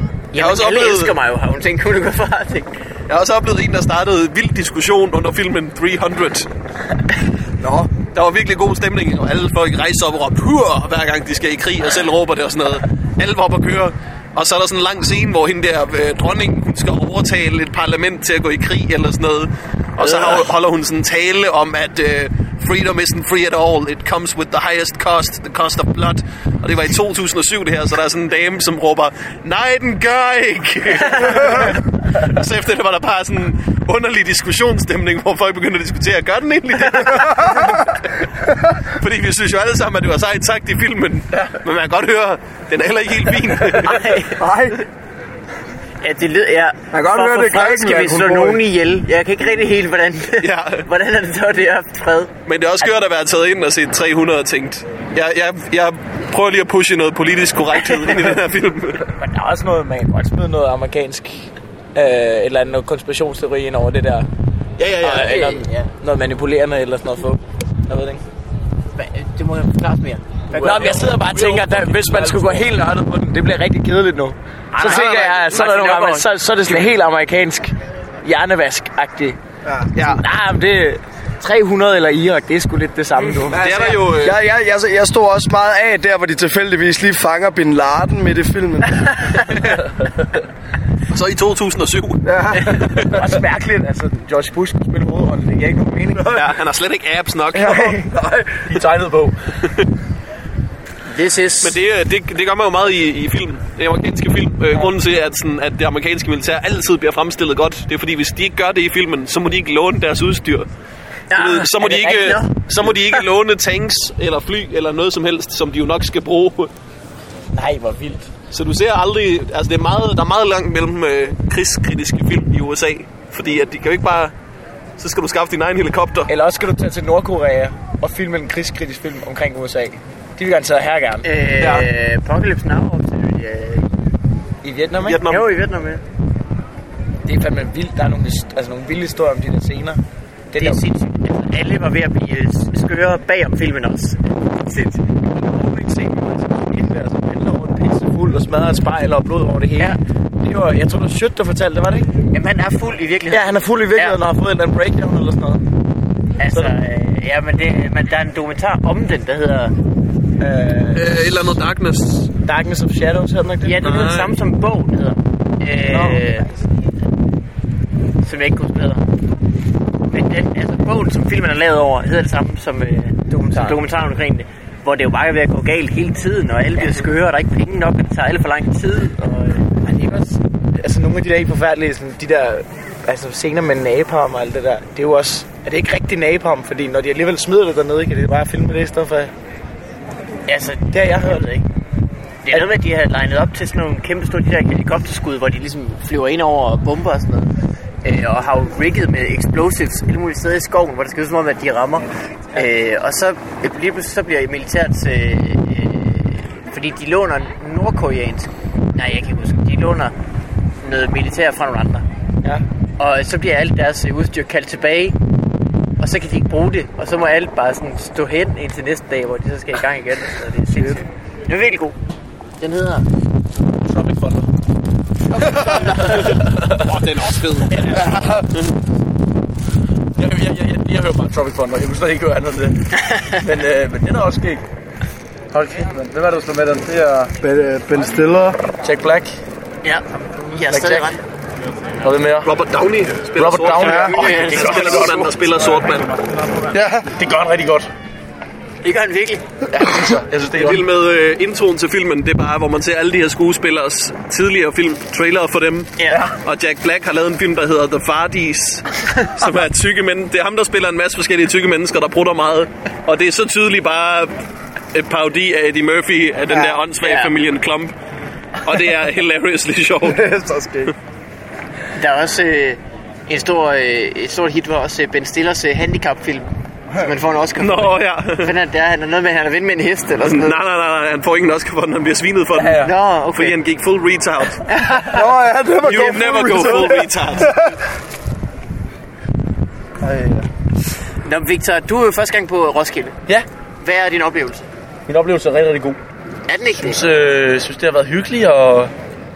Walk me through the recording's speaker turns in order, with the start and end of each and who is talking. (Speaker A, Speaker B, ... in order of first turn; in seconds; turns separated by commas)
Speaker A: 0.3-2.7, Speaker B: 0.4-1.1, Speaker B: 3.1-6.5, Speaker C: 7.6-7.9, Speaker B: 8.1-38.0, Speaker B: 38.9-44.2, Speaker A: 43.8-44.4, Speaker C: 44.4-44.8, Speaker A: 46.0-52.3, Speaker C: 46.9-48.6, Speaker B: 50.4-50.9, Speaker B: 52.5-59.1, Speaker D: 59.1-64.3, Speaker D: 64.8-68.2, Speaker A: 65.0-65.9, Speaker A: 69.0-71.1, Speaker D: 70.5-79.4, Speaker E: 70.6-72.8, Speaker A: 74.7-76.3, Speaker B: 74.8-75.4, Speaker C: 79.7-79.9, Speaker B: 80.0-80.2, Speaker D: 80.0-84.0, Speaker B: 83.5-84.4, Speaker C: 83.7-89.4, Speaker B: 91.1-93.1, Speaker C: 92.2-92.8, Speaker D: 92.7-96.5, Speaker B: 96.3-97.9, Speaker D: 97.5-98.1, Speaker E: 98.6-99.4, Speaker A: 101.1-101.8, Speaker B: 101.6-110.7, Speaker A: 111.3-113.2, Speaker B: 111.3-116.7, Speaker D: 117.5-118.3, Speaker B: 118.5-124.3, Speaker B: 125.0-126.3, Speaker D: 126.3-131.9, Speaker A: 131.2-133.9, Speaker D: 134.6-135.2, Speaker B: 135.0-135.5, Speaker A: 135.3-136.0, Speaker D: 137.2-140.8, Speaker A: 140.6-145.1, Speaker D: 145.3-152.1, Speaker A: 152.3-154.2, Speaker D: 153.3-155.6, Speaker A: 156.4-159.8, Speaker D: 160.4-161.5, Speaker B: 160.9-162.3, Speaker D: 162.4-163.8, Speaker A: 163.6-166.5, Speaker B: 163.8-164.4, Speaker D: 165.9-166.4, Speaker A: 168.2-169.1, Speaker A: 170.1-179.9, Speaker D: 173.3-173.8, Speaker D: 179.9-189.3, Speaker A: 190.5-191.4, Speaker D: 190.8-191.6, Speaker A: 192.4-197.5, Speaker A: 198.0-210.1, Speaker A: 210.8-212.1, Speaker A: 213.0-215.2, Speaker A: 216.0-222.0, Speaker A: 222.6-223.1, Speaker E: 223.7-224.5, Speaker A: 225.4-226.3, Speaker E: 225.6-227.0, Speaker B: 226.0-228.7, Speaker E: 227.7-228.5, Speaker E: 230.2-234.6, Speaker A: 233.0-233.4, Speaker E: 235.5-237.3, Speaker C: 237.4-238.6, Speaker E: 238.8-239.3, Speaker A: 239.8-241.2, Speaker E: 240.7-241.1, Speaker E: 242.0-242.5, Speaker B: 242.4-246.2, Speaker E: 243.4-245.3, Speaker C: 243.8-244.2, Speaker A: 243.9-245.3, Speaker C: 246.7-247.1, Speaker E: 247.1-247.9, Speaker A: 248.8-249.4, Speaker E: 249.7-250.8, Speaker B: 250.6-264.4, Speaker A: 256.0-256.3, Speaker B: 264.9-267.9, Speaker A: 266.9-267.3, Speaker B: 268.6-270.3, Speaker C: 270.1-270.9, Speaker A: 272.0-280.6, Speaker B: 277.6-278.5, Speaker B: 280.2-284.6, Speaker E: 282.5-282.9, Speaker A: 282.8-283.6, Speaker A: 284.7-285.2, Speaker C: 285.0-287.8, Speaker B: 285.8-287.5, Speaker E: 290.1-290.4, Speaker A: 291.2-293.1, Speaker A: 293.8-294.7, Speaker E: 295.1-296.0, Speaker A: 296.5-297.0, Speaker E: 296.8-298.9